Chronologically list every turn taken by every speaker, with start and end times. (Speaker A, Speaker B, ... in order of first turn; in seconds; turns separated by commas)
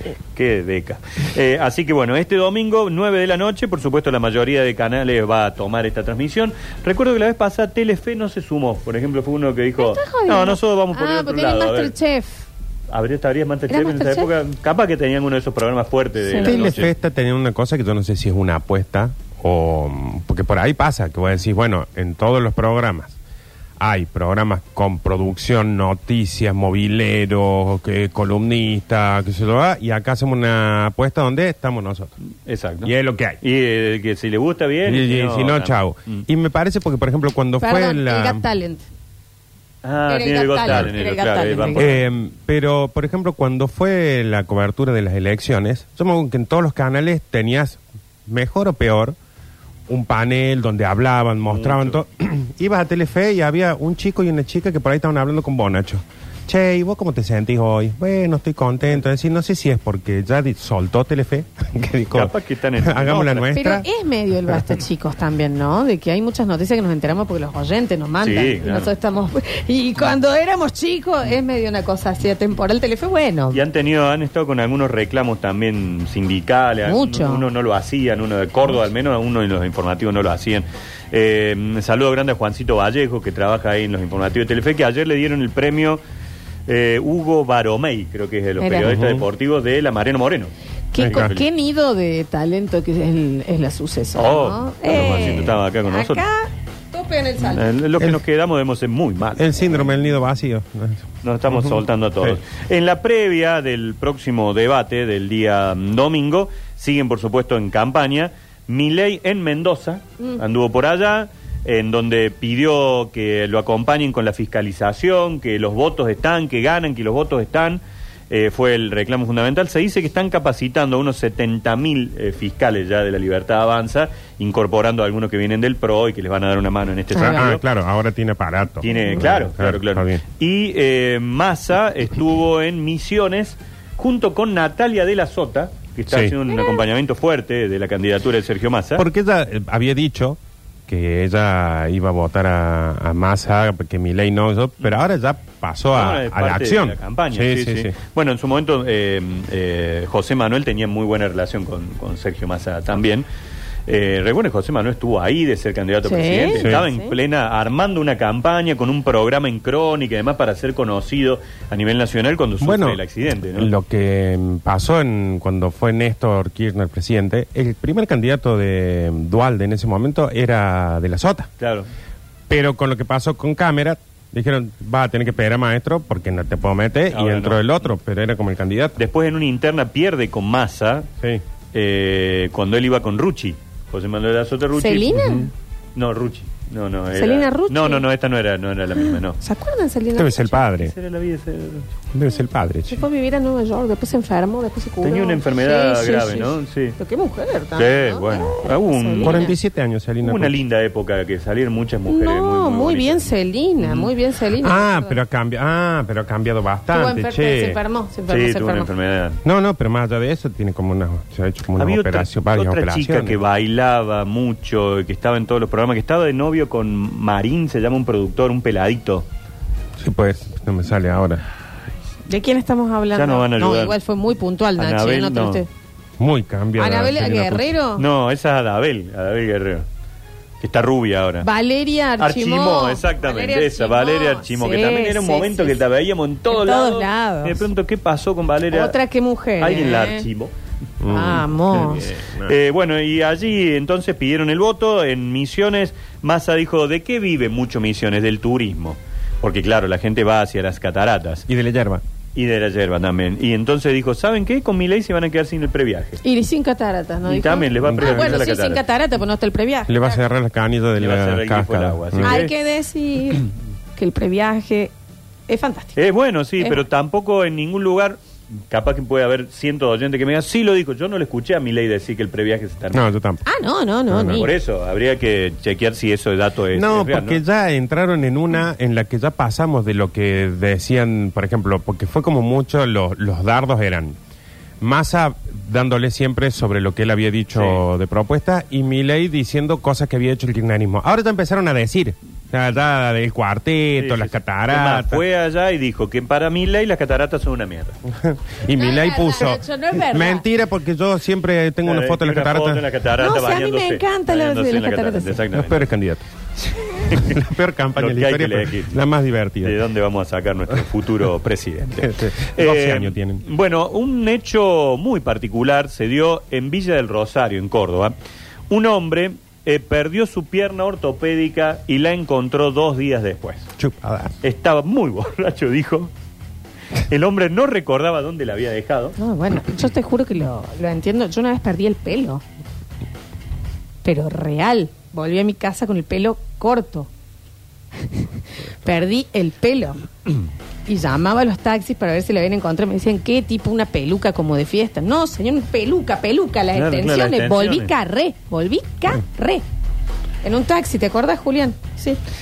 Speaker A: 0.3-11.9, Speaker B: 9.8-12.4, Speaker A: 12.9-16.9, Speaker B: 13.7-14.3, Speaker B: 16.3-16.7, Speaker C: 16.4-23.2, Speaker C: 23.8-32.1, Speaker A: 32.5-36.3, Speaker C: 32.8-33.4, Speaker C: 34.9-38.4, Speaker B: 37.6-38.9, Speaker A: 39.8-42.0, Speaker B: 40.1-41.9, Speaker C: 41.8-49.2, Speaker C: 49.9-63.9, Speaker A: 51.5-52.0, Speaker A: 62.1-63.5, Speaker B: 63.5-73.6, Speaker A: 68.2-68.9, Speaker A: 73.5-86.0, Speaker B: 76.9-77.5, Speaker A: 86.7-90.5, Speaker B: 88.6-88.9, Speaker C: 88.8-89.2, Speaker B: 90.9-97.7, Speaker C: 91.0-91.3, Speaker A: 91.0-91.5, Speaker A: 94.2-96.2, Speaker A: 97.5-99.7, Speaker C: 99.4-102.4, Speaker A: 101.2-127.6, Speaker B: 127.1-127.5, Speaker C: 127.2-130.2, Speaker A: 128.8-139.1, Speaker C: 136.1-136.4, Speaker B: 136.5-136.8, Speaker C: 139.0-147.9, Speaker A: 145.9-153.3, Speaker A: 153.9-163.7, Speaker B: 156.1-157.1, Speaker C: 156.6-156.9, Speaker C: 162.6-171.5, Speaker A: 171.6-171.9, Speaker C: 172.5-179.0, Speaker A: 177.1-177.7, Speaker A: 179.0-181.1, Speaker A: 181.7-185.2, Speaker B: 184.8-185.5, Speaker C: 185.1-185.5, Speaker A: 185.9-189.4, Speaker B: 187.2-188.1, Speaker B: 189.0-190.6, Speaker C: 190.2-190.9, Speaker A: 190.6-191.9, Speaker C: 192.1-193.0, Speaker B: 192.9-199.6, Speaker A: 195.0-197.0, Speaker A: 197.8-199.5, Speaker C: 199.2-200.5, Speaker A: 200.2-203.3, Speaker B: 202.1-205.2, Speaker A: 203.8-204.1, Speaker C: 204.6-207.8, Speaker B: 206.9-208.9, Speaker A: 208.3-209.4, Speaker C: 209.4-213.4, Speaker A: 211.8-219.3, Speaker C: 220.0-221.4, Speaker B: 222.3-225.7, Speaker A: 223.1-223.9, Speaker A: 224.8-225.6, Speaker C: 226.2-227.7, Speaker B: 226.8-228.1, Speaker A: 228.0-229.8, Speaker A: 230.6-231.5, Speaker B: 231.4-235.8, Speaker A: 232.2-239.0, Speaker B: 236.5-237.7, Speaker B: 238.7-240.3, Speaker A: 239.6-240.5, Speaker C: 241.0-242.6, Speaker B: 241.1-242.1, Speaker A: 241.7-251.5, Speaker C: 251.5-252.0, Speaker A: 252.4-256.2, Speaker B: 256.2-260.2, Speaker A: 257.3-258.8, Speaker C: 257.8-258.4, Speaker C: 259.9-262.4, Speaker A: 261.0-262.5, Speaker B: 262.2-264.9, Speaker B: 265.5-266.0, Speaker A: 266.0-273.1, Speaker C: 272.9-273.4, Speaker B: 273.4-274.5, Speaker C: 274.1-274.5, Speaker A: 274.3-277.4, Speaker C: 276.7-284.2, Speaker C: 284.8-295.2, Speaker A: 287.5-287.8, Speaker A: 294.0-298.0, Speaker C: 298.1-302.9, Speaker B: 298.8-300.5, Speaker A: 301.9-305.9, Speaker B: 303.2-305.4, Speaker C: 305.5-306.2, Speaker A: 307.1-307.4, Speaker C: 307.1-309.8, Speaker A: 308.0-309.0, Speaker A: 309.6-318.1, Speaker C: 312.0-313.4, Speaker A: 318.7-323.7, Speaker C: 323.8-324.4, Speaker A: 324.4-326.1, Speaker A: 327.1-329.2, Speaker B: 329.2-332.4, Speaker B: 334.0-337.1, Speaker B: 338.1-340.1, Speaker B: 340.9-349.6, Speaker A: 346.7-347.9, Speaker B: 350.4-352.2